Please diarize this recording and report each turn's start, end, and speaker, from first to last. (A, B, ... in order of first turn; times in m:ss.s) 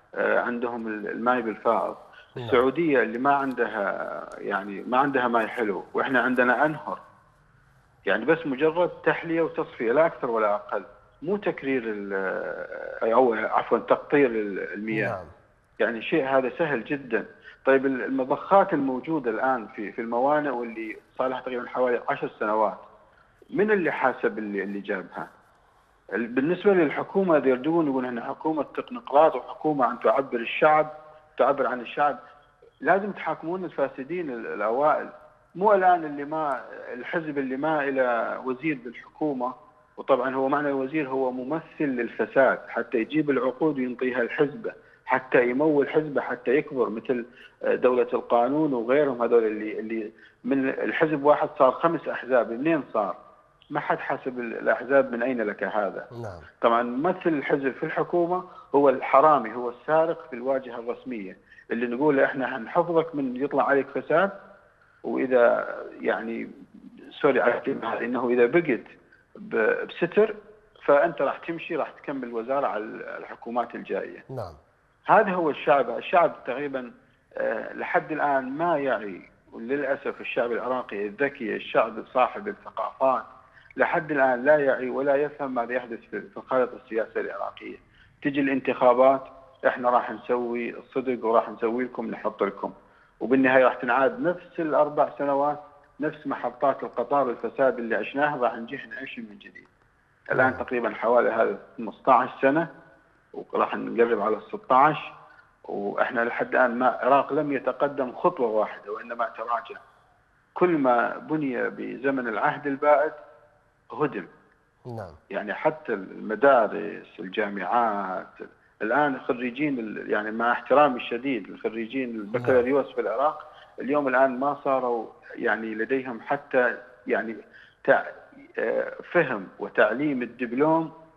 0:00.2-0:07.0 A
0:08.1-0:15.2 A
0:14.9-0:15.3 B
0:15.8-0:22.8 A
0:23.6-0:25.3 A
0:26.2-0:32.2 A
0:32.8-0:47.2 A
0:47.7-0:53.2 A
0:53.7-0:56.1 A
0:56.2-0:56.5 B
0:56.6-1:04.3 A
1:05.1-1:05.5 A
1:06.0-1:06.4 A
1:07.2-1:08.8 A
1:09.4-1:14.2 A
1:14.3-1:14.6 B
1:15.1-1:16.9 A
1:17.4-1:23.2 A
1:23.8-1:39.7 A
1:40.3-1:42.7 A
1:40.3-1:40.6 B
1:43.4-1:45.1 A
1:45.7-1:49.8 A
1:50.6-1:53.2 A
1:53.9-1:54.3 A
1:54.9-1:55.2 B
1:55.3-2:10.9 A
2:02.4-2:02.6 B